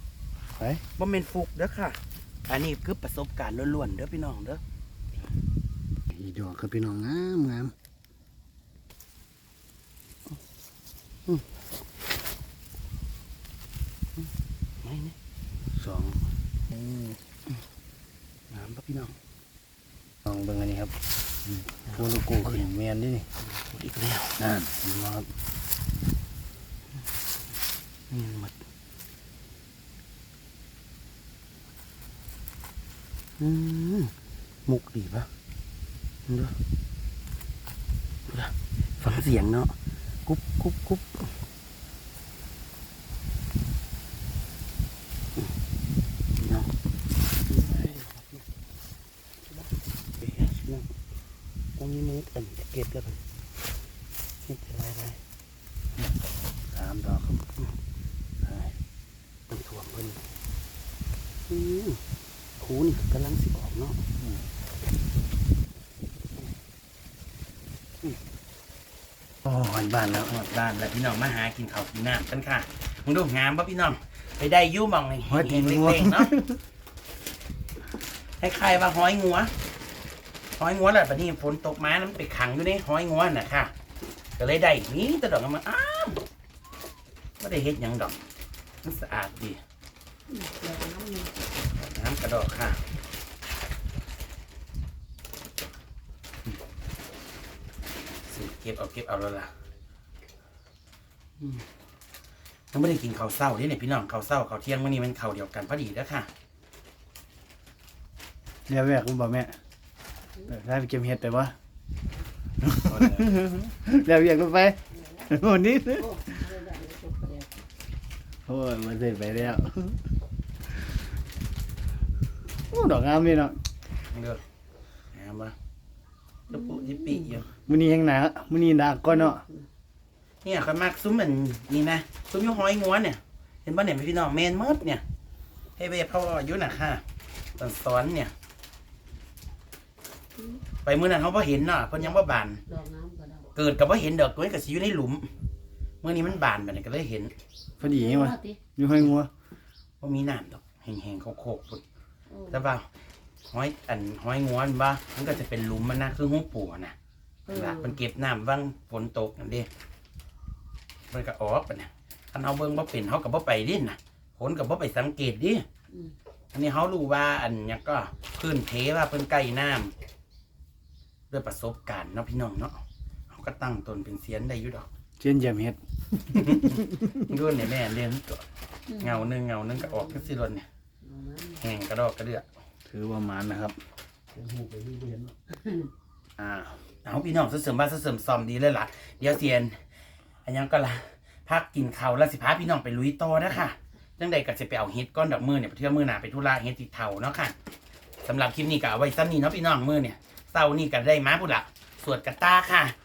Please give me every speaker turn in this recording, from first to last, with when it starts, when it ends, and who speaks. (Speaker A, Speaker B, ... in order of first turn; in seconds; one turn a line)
Speaker A: 0.5-0.8
Speaker B: 1.0-4.6
Speaker A: 6.1-7.7
Speaker B: 14.8-15.2
Speaker A: 15.7-16.3
Speaker B: 18.5-19.1
Speaker A: 20.2-21.0
Speaker A: 21.9-23.3
Speaker B: 21.9-22.7
Speaker B: 23.4-24.4
Speaker A: 24.4-25.3
Speaker B: 28.1-28.6
Speaker B: 33.4-34.1
Speaker B: 34.7-35.3
Speaker B: 36.3-36.6
Speaker B: 38.3-39.8
Speaker B: 40.3-41.3
Speaker B: 46.4-46.7
Speaker B: 47.5-48.4
Speaker B: 49.4-49.7
Speaker B: 50.2-50.9
Speaker B: 51.8-53.2
Speaker B: 54.5-55.2
Speaker A: 56.7-57.5
Speaker A: 58.4-58.8
Speaker B: 59.5-60.2
Speaker B: 61.5-62.0
Speaker B: 62.6-64.0
Speaker A: 64.2-64.5
Speaker A: 69.4-70.3
Speaker B: 70.2-76.3
Speaker A: 75.3-76.6
Speaker B: 78.4-79.5
Speaker B: 80.6-83.7
Speaker B: 84.4-86.2
Speaker B: 87.4-88.2
Speaker B: 88.8-89.6
Speaker C: 90.3-91.3
Speaker B: 91.6-92.8
Speaker B: 98.3-99.5
Speaker B: 101.4-101.7
Speaker B: 102.7-106.3
Speaker A: 108.7-109.6
Speaker A: 110.5-111.6
Speaker A: 112.6-116.5
Speaker C: 116.1-117.6
Speaker A: 118.5-120.0
Speaker A: 122.7-123.6
Speaker B: 124.1-124.4
Speaker B: 125.1-125.5
Speaker B: 126.5-127.5
Speaker A: 127.7-129.5
Speaker B: 130.4-135.0
Speaker B: 135.8-137.0
Speaker B: 137.6-138.3
Speaker B: 140.8-142.6
Speaker C: 142.7-143.5
Speaker B: 143.5-145.4
Speaker B: 146.0-147.3
Speaker A: 147.8-149.3
Speaker C: 147.8-148.6
Speaker B: 150.0-151.8
Speaker C: 152.3-152.6
Speaker B: 152.5-152.9
Speaker B: 153.5-157.0
Speaker C: 157.5-158.0
Speaker B: 157.5-159.7
Speaker B: 161.1-165.7
Speaker B: 166.5-169.9
Speaker B: 171.3-174.9
Speaker A: 175.2-175.8
Speaker B: 176.2-180.7
Speaker A: 176.6-177.2
Speaker C: 181.1-181.6
Speaker B: 181.5-182.4
Speaker A: 182.9-183.8
Speaker C: 184.6-185.9
Speaker A: 186.4-186.8
Speaker B: 187.0-189.8
Speaker B: 190.4-197.5
Speaker B: 198.2-203.0